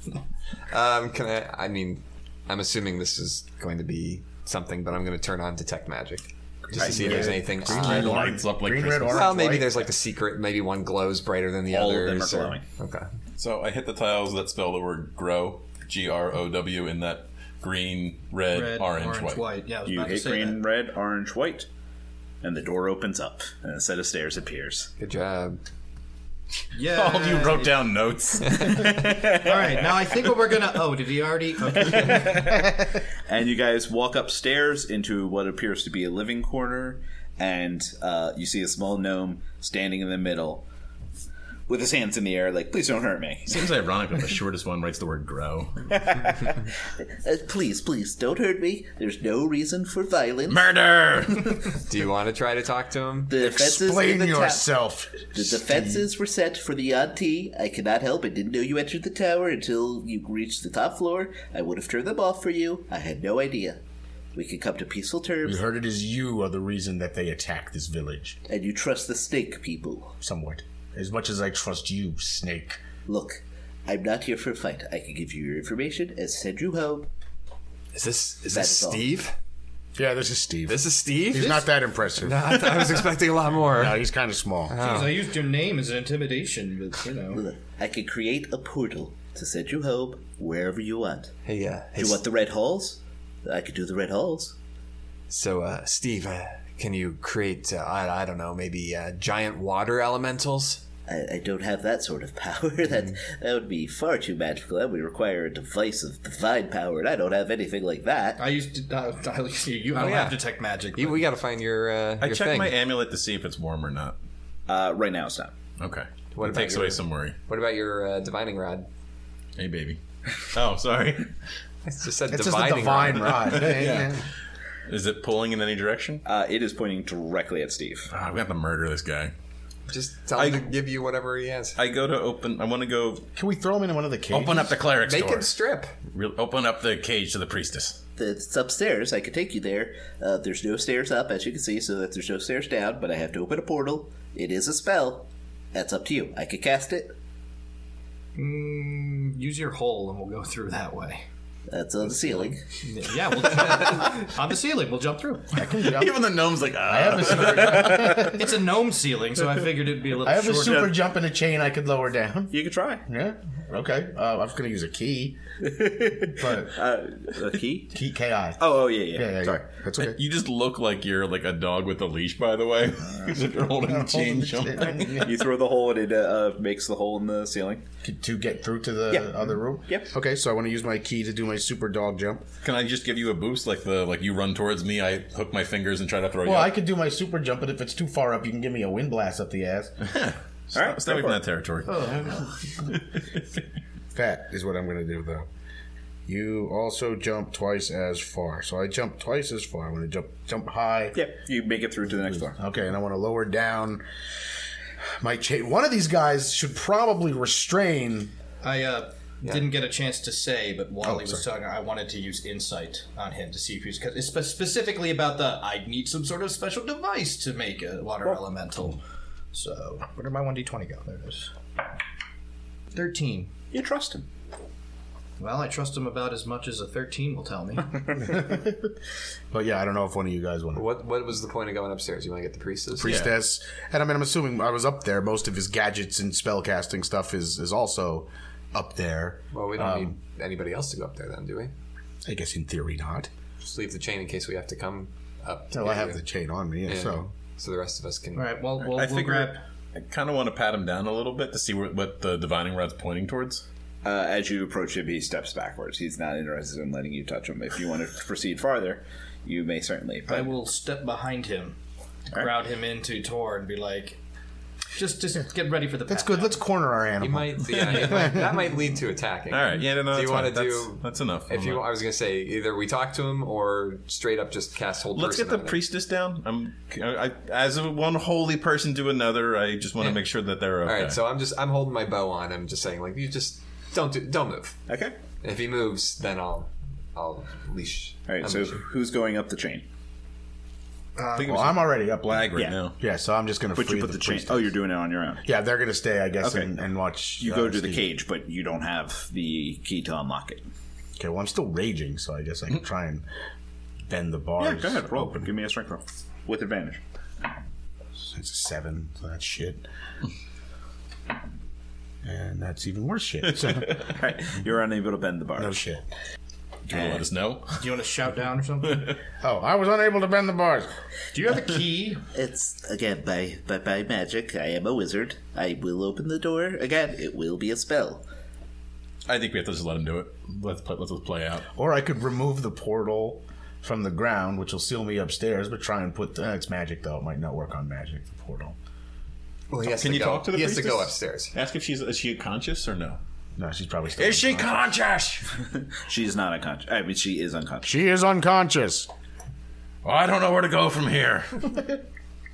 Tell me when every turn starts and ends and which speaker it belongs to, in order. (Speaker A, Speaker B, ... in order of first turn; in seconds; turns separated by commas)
Speaker A: 0.7-8.3, Speaker B: 6.6-9.7, Speaker C: 6.8-9.4, Speaker A: 9.1-13.1, Speaker D: 11.7-12.6, Speaker C: 13.4-19.4, Speaker E: 18.5-20.6, Speaker D: 19.9-21.7, Speaker D: 22.4-24.9, Speaker A: 25.0-25.6, Speaker E: 26.7-27.8, Speaker C: 26.9-29.0, Speaker A: 28.5-28.8, Speaker D: 28.7-30.2, Speaker E: 29.1-32.5, Speaker D: 31.6-40.6, Speaker D: 41.7-43.7, Speaker C: 43.5-46.0, Speaker D: 45.9-50.7, Speaker C: 50.5-51.8, Speaker A: 51.7-53.3, Speaker D: 53.3-54.7, Speaker B: 53.4-56.1, Speaker D: 55.3-63.8, Speaker D: 64.3-65.6, Speaker B: 65.4-68.4, Speaker D: 68.5-70.1, Speaker B: 70.2-72.8, Speaker D: 73.0-77.1, Speaker A: 77.9-79.3, Speaker D: 78.5-79.1, Speaker B: 80.0-82.8, Speaker A: 80.7-84.0, Speaker B: 83.7-84.8, Speaker A: 84.7-85.2, Speaker E: 84.8-87.4, Speaker D: 87.3-91.3, Speaker A: 91.5-92.2, Speaker D: 92.0-94.5, Speaker A: 95.3-100.8, Speaker D: 101.1-108.4, Speaker E: 108.4-111.2, Speaker A: 110.0-110.4, Speaker A: 110.9-112.7, Speaker C: 112.2-114.2, Speaker D: 114.7-115.5, Speaker C: 115.8-117.3, Speaker A: 116.3-118.9, Speaker C: 119.6-121.3, Speaker A: 121.8-123.6, Speaker B: 122.3-124.2, Speaker C: 123.3-124.2, Speaker C: 124.9-126.2, Speaker D: 126.2-128.1, Speaker C: 128.1-129.3, Speaker A: 129.9-131.8, Speaker C: 130.3-130.6, Speaker C: 131.8-133.3, Speaker B: 133.3-134.8, Speaker C: 134.3-135.5, Speaker A: 135.0-136.0, Speaker C: 136.1-138.0, Speaker D: 138.2-147.1, Speaker E: 148.3-151.2, Speaker D: 151.7-152.6, Speaker E: 152.8-155.5, Speaker B: 155.5-158.5, Speaker C: 155.6-158.3, Speaker E: 158.1-160.9, Speaker B: 160.2-162.5, Speaker D: 160.6-161.0, Speaker D: 162.5-163.0, Speaker B: 163.1-165.4, Speaker D: 165.6-167.9, Speaker B: 166.2-166.8, Speaker B: 167.9-170.2, Speaker D: 168.6-169.6, Speaker C: 170.0-175.3, Speaker B: 173.8-175.5, Speaker D: 175.0-177.8, Speaker B: 178.0-182.5, Speaker D: 179.1-180.1, Speaker C: 182.6-186.7, Speaker B: 186.4-189.9, Speaker C: 190.0-192.3, Speaker D: 190.7-191.4, Speaker E: 191.8-192.4, Speaker C: 192.9-193.2, Speaker B: 194.1-195.5, Speaker B: 196.2-201.2, Speaker D: 201.1-202.6, Speaker B: 202.3-204.0, Speaker B: 205.2-208.3, Speaker E: 208.6-219.0, Speaker B: 211.0-211.4, Speaker E: 219.5-221.5, Speaker E: 222.9-223.5, Speaker D: 223.7-224.3, Speaker E: 225.4-228.0, Speaker D: 227.9-228.4, Speaker B: 228.1-229.0, Speaker B: 229.5-230.8, Speaker A: 230.7-233.2, Speaker B: 232.9-240.2, Speaker C: 233.0-233.3, Speaker A: 239.5-241.7, Speaker B: 242.2-243.3, Speaker A: 243.6-246.2, Speaker B: 245.7-247.3, Speaker A: 246.9-248.5, Speaker E: 248.3-249.6, Speaker C: 248.8-253.6, Speaker D: 254.0-260.5, Speaker E: 260.3-261.8, Speaker E: 262.3-264.2, Speaker E: 264.9-266.6, Speaker B: 266.1-268.5, Speaker A: 267.2-275.8, Speaker C: 267.7-268.4, Speaker C: 269.5-271.9, Speaker C: 275.1-281.2, Speaker A: 280.0-280.2, Speaker A: 280.8-284.8, Speaker D: 284.9-285.1, Speaker A: 285.4-288.8, Speaker D: 288.3-289.8, Speaker E: 291.2-291.6, Speaker C: 291.4-292.9, Speaker B: 291.4-294.7, Speaker D: 293.7-295.4, Speaker B: 295.4-298.1, Speaker D: 296.4-296.7, Speaker D: 297.4-300.6, Speaker B: 301.2-303.2, Speaker B: 304.1-305.5, Speaker D: 304.6-307.0, Speaker B: 308.2-309.8, Speaker B: 312.2-314.1, Speaker D: 314.1-315.8, Speaker B: 315.6-316.1, Speaker C: 316.9-317.9, Speaker D: 316.9-317.2, Speaker E: 317.8-319.2, Speaker C: 318.8-319.2, Speaker B: 319.4-320.9, Speaker E: 321.3-322.2, Speaker D: 322.3-328.2, Speaker C: 329.3-331.7, Speaker B: 331.7-338.8, Speaker A: 339.7-341.5, Speaker C: 339.8-343.2, Speaker B: 343.6-344.8, Speaker C: 344.2-345.6, Speaker D: 345.9-347.9, Speaker B: 347.8-349.1, Speaker C: 350.0-352.0